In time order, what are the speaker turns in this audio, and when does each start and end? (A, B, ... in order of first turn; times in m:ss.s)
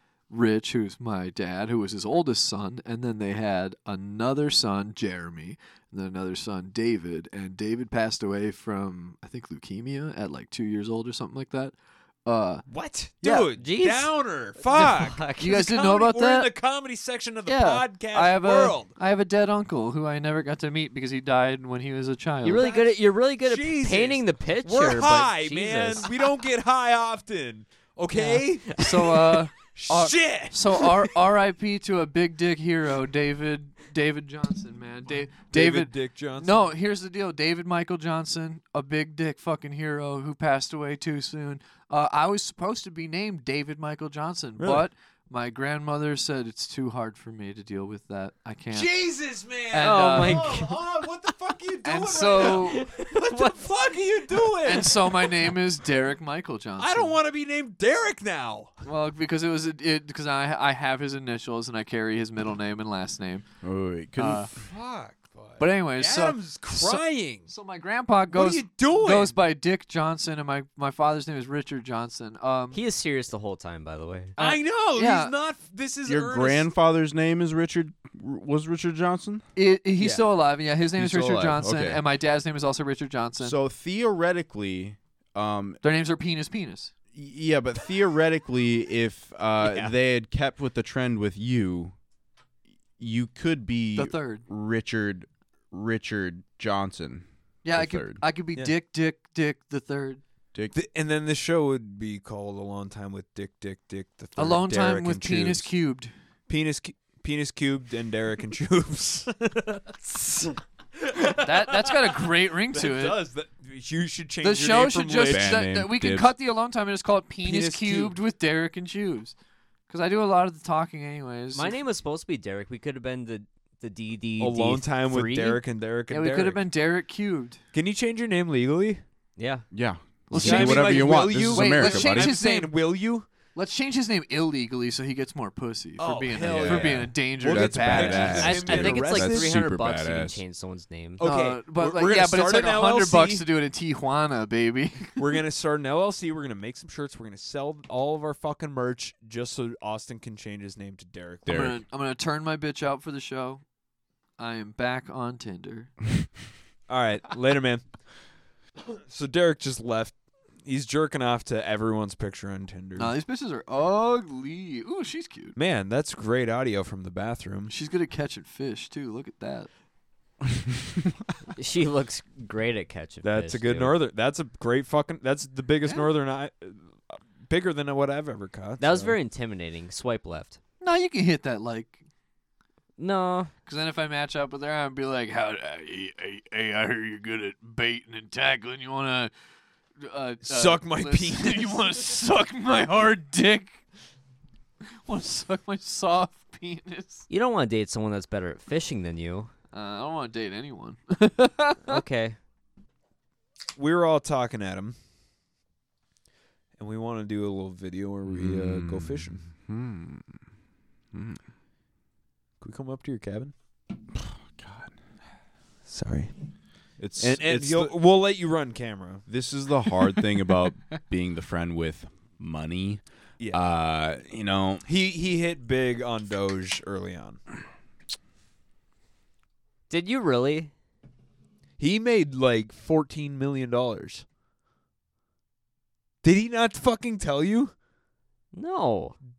0:00.3-0:12.6 A
0:12.7-0:18.9 B
0:13.2-0:15.5 C
0:15.4-0:16.5 A
0:17.4-0:22.7 A
0:22.4-0:26.1 C
0:22.5-0:22.9 B
0:23.4-0:31.1 B
0:28.2-0:48.9 A
0:35.5-0:36.6 B
0:44.6-0:44.8 B
0:48.7-0:55.6 B
0:49.7-0:50.6 A
0:49.8-0:50.8 C
0:51.8-0:52.9 A
0:52.4-0:53.6 C
0:54.6-0:57.2 A
0:56.8-0:58.7 B
0:58.8-1:03.4 A
1:03.6-1:04.5 D
1:04.2-1:04.5 A
1:04.5-1:07.5 B
1:05.6-1:12.8 A
1:08.3-1:09.3 B
1:12.7-1:14.4 C
1:14.4-1:15.3 A
1:14.4-1:16.7 B
1:16.0-1:19.4 D
1:19.6-1:23.6 A
1:20.0-1:20.2 B
1:21.0-1:22.0 D
1:23.4-1:25.8 D
1:25.8-1:26.9 A
1:27.1-1:31.9 D
1:29.6-1:29.9 B
1:33.0-1:38.2 D
1:34.0-1:34.4 A
1:37.6-1:40.2 A
1:40.7-1:45.7 B
1:44.4-1:46.1 A
1:46.5-1:55.6 B
1:51.3-1:53.2 A
1:54.4-1:59.3 A
1:55.2-1:56.3 D
1:57.4-1:58.2 B
1:59.9-2:01.8 A
2:01.5-2:05.6 C
2:04.4-2:06.6 B
2:06.1-2:07.6 A
2:07.7-2:09.0 B
2:09.4-2:09.6 C
2:09.7-2:12.4 D
2:10.3-2:12.7 A
2:10.3-2:13.3 B
2:13.6-2:18.6 A
2:16.0-2:19.5 B
2:16.4-2:20.4 D
2:18.3-2:21.2 C
2:21.2-2:23.4 B
2:21.2-2:25.4 A
2:25.2-2:31.7 B
2:31.4-2:31.8 D
2:31.5-2:33.6 A
2:34.4-2:35.9 A
2:36.9-2:37.9 B
2:38.8-2:43.1 B
2:43.0-2:45.6 A
2:45.6-2:47.7 B
2:47.7-2:49.7 A
2:51.6-2:54.0 C
2:53.2-2:59.2 B
2:58.8-3:00.6 C
3:00.8-3:02.0 A
3:03.0-3:03.5 C
3:03.6-3:09.3 A
3:10.0-3:13.8 A
3:10.4-3:12.0 B
3:15.0-3:17.2 A
3:17.3-3:19.5 C
3:19.7-3:22.0 A
3:21.9-3:22.4 C
3:23.8-3:25.0 B
3:26.8-3:29.4 B
3:28.3-3:30.4 D
3:31.1-3:31.4 D
3:32.6-3:33.5 B
3:34.1-3:34.9 D
3:35.9-3:36.3 B
3:37.0-3:37.9 D
3:37.2-3:39.2 B
3:39.3-3:44.8 D
3:44.9-3:47.4 B
3:49.9-3:50.7 C
3:51.8-3:54.2 B
3:56.2-3:57.7 B
3:58.5-3:59.2 C